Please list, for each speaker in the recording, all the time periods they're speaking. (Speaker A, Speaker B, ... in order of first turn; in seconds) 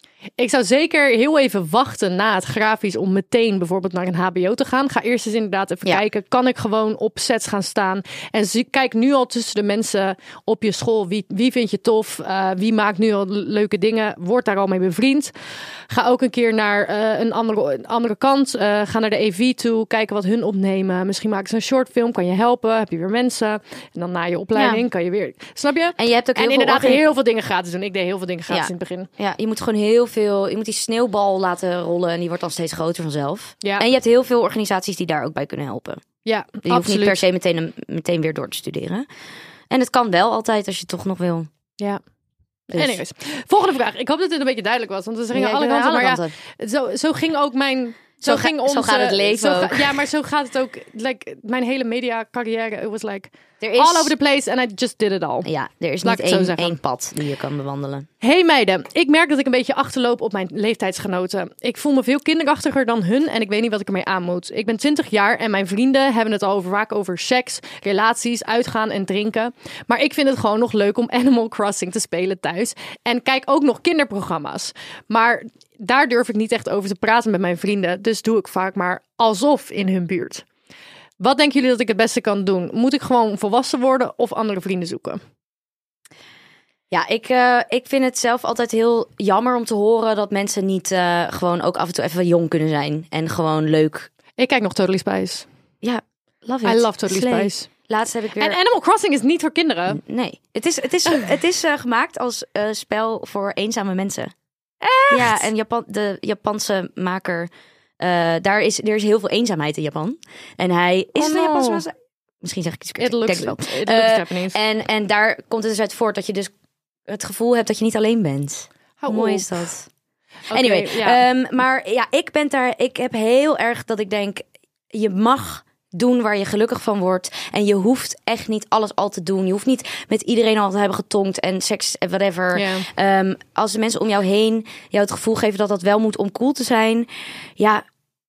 Speaker A: 0.4-15.3, 15.9-29.1, 36.2-37.2, 42.7-55.5, 56.0-56.8, 58.2-80.5, 81.2-85.2, 94.4-95.5, 96.6-97.7, 98.4-100.0, 104.8-105.5, 111.2-111.9, 113.0-114.6, 119.0-119.7, 120.5-121.2, 132.5-132.9
Speaker B: 24.6-24.8, 26.0-27.1, 28.5-36.0, 36.6-39.1, 39.7-41.5, 42.7-43.0, 45.3-46.3, 48.2-50.0, 53.6-54.1, 55.5-58.1, 86.9-94.1, 95.8-98.6, 99.9-104.3, 105.1-107.5, 108.0-116.5, 117.1-119.9, 120.5-137.8